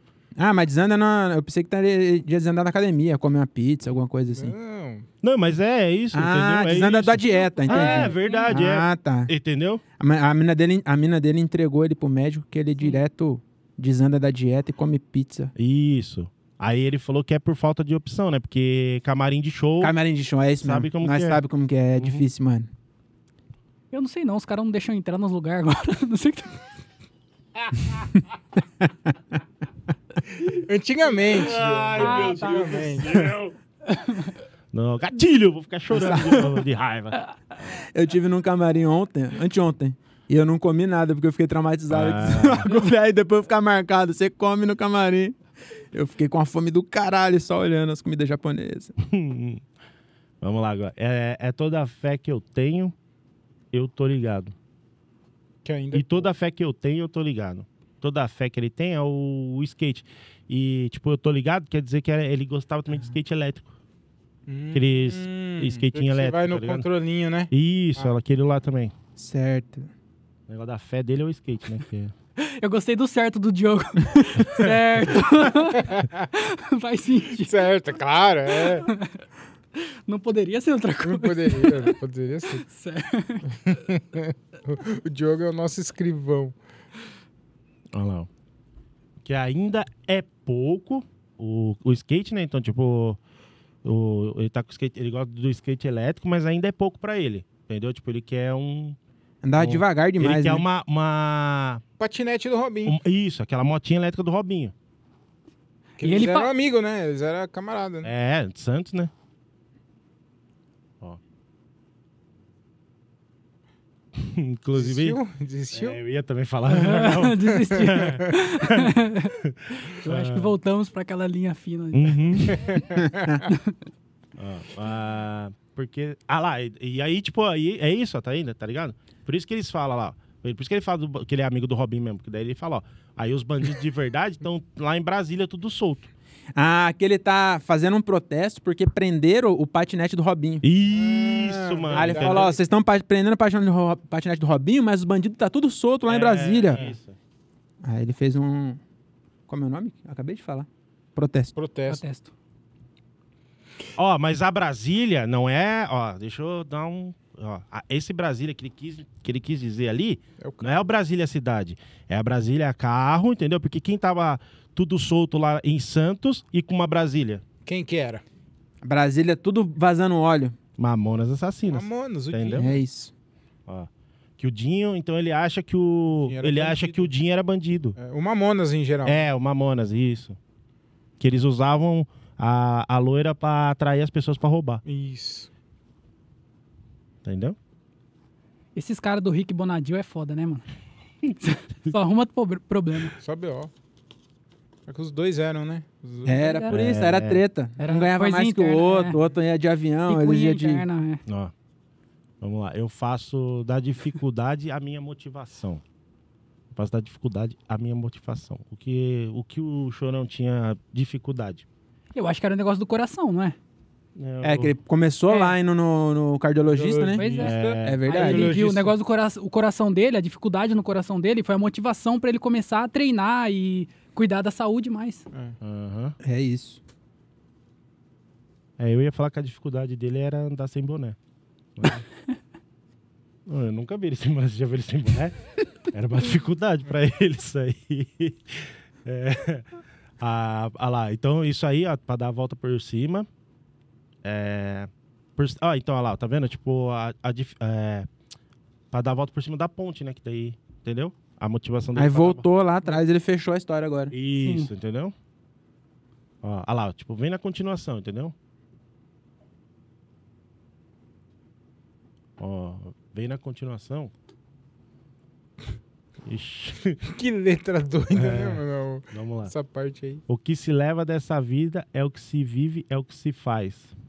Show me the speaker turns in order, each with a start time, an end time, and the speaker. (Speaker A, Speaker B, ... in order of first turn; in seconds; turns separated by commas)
Speaker A: 0.4-4.5, Speaker B: 4.3-5.1, Speaker C: 5.2-9.8, Speaker A: 6.1-9.3, Speaker D: 7.6-8.5, Speaker A: 10.0-15.5, Speaker C: 15.6-20.0, Speaker A: 19.8-22.7, Speaker C: 20.6-21.4, Speaker C: 22.0-22.2, Speaker D: 23.9-26.6, Speaker B: 30.4-33.3, Speaker C: 31.2-33.6, Speaker D: 31.9-32.8, Speaker D: 33.9-34.3, Speaker C: 34.7-37.2, Speaker A: 35.9-36.6, Speaker A: 37.6-48.9, Speaker C: 41.9-42.7, Speaker C: 49.0-49.6, Speaker C: 50.4-53.0, Speaker C: 53.7-54.5, Speaker B: 55.6-56.3, Speaker C: 55.9-63.7, Speaker B: 64.5-68.2, Speaker C: 64.7-66.9, Speaker C: 67.5-68.9, Speaker A: 69.2-69.9, Speaker C: 70.5-72.1, Speaker D: 72.4-77.7, Speaker B: 75.8-76.1, Speaker B: 77.5-78.9, Speaker D: 78.6-79.1, Speaker D: 79.8-82.0, Speaker B: 81.0-82.6, Speaker D: 82.5-83.5, Speaker B: 83.6-86.5, Speaker C: 87.9-88.3, Speaker C: 89.2-93.2, Speaker C: 93.8-99.0, Speaker A: 99.4-100.6, Speaker C: 99.5-101.8, Speaker B: 102.0-103.0, Speaker C: 102.8-104.7, Speaker D: 106.0-106.5, Speaker B: 106.0-108.1, Speaker C: 108.0-109.1, Speaker C: 114.2-115.2, Speaker B: 114.8-116.0, Speaker C: 115.7-120.5, Speaker D: 116.7-122.8, Speaker B: 117.5-118.2, Speaker C: 121.9-122.6, Speaker B: 122.6-123.5, Speaker A: 123.0-123.4, Speaker D: 123.5-123.8, Speaker C: 124.4-136.1, Speaker A: 136.6-140.6, Speaker C: 140.6-142.6, Speaker B: 140.9-142.6, Speaker A: 141.9-146.9, Speaker C: 146.1-147.2, Speaker A: 147.8-148.8, Speaker A: 149.5-151.5, Speaker B: 151.6-152.0, Speaker D: 151.9-152.3, Speaker C: 154.0-167.4, Speaker B: 160.4-160.7, Speaker B: 167.7-168.2, Speaker A: 168.8-170.6, Speaker C: 170.8-172.8, Speaker B: 171.7-172.8, Speaker A: 172.6-173.1, Speaker C: 173.7-178.0, Speaker B: 176.3-177.1, Speaker B: 178.0-179.2, Speaker C: 179.1-180.4, Speaker C: 181.2-184.8, Speaker B: 184.8-185.5, Speaker C: 187.2-187.6, Speaker D: 188.8-190.7, Speaker D: 191.4-193.2, Speaker B: 193.2-193.7, Speaker B: 194.9-196.7, Speaker A: 196.2-200.8, Speaker D: 196.3-196.7, Speaker C: 196.7-197.4, Speaker D: 197.8-199.2, Speaker D: 200.1-201.2, Speaker C: 201.3-201.5, Speaker C: 202.4-205.8, Speaker C: 206.7-211.7, Speaker D: 212.1-213.6, Speaker C: 214.2-214.7, Speaker A: 214.4-217.3, Speaker D: 215.3-215.6, Speaker B: 216.7-218.9, Speaker D: 217.0-225.3, Speaker C: 217.3-218.0, Speaker A: 217.8-218.6, Speaker B: 225.3-225.6, Speaker C: 225.6-226.2, Speaker A: 226.2-226.8, Speaker C: 228.8-231.2, Speaker C: 231.8-232.0, Speaker C: 233.5-239.7, Speaker C: 240.2-243.3, Speaker C: 244.2-248.1, Speaker C: 248.9-252.5, Speaker A: 252.0-254.1, Speaker C: 254.1-255.2, Speaker D: 254.4-254.7, Speaker C: 256.4-258.3, Speaker C: 262.4-264.1, Speaker C: 266.2-267.0, Speaker B: 267.0-270.2, Speaker C: 268.1-269.5, Speaker C: 270.3-273.9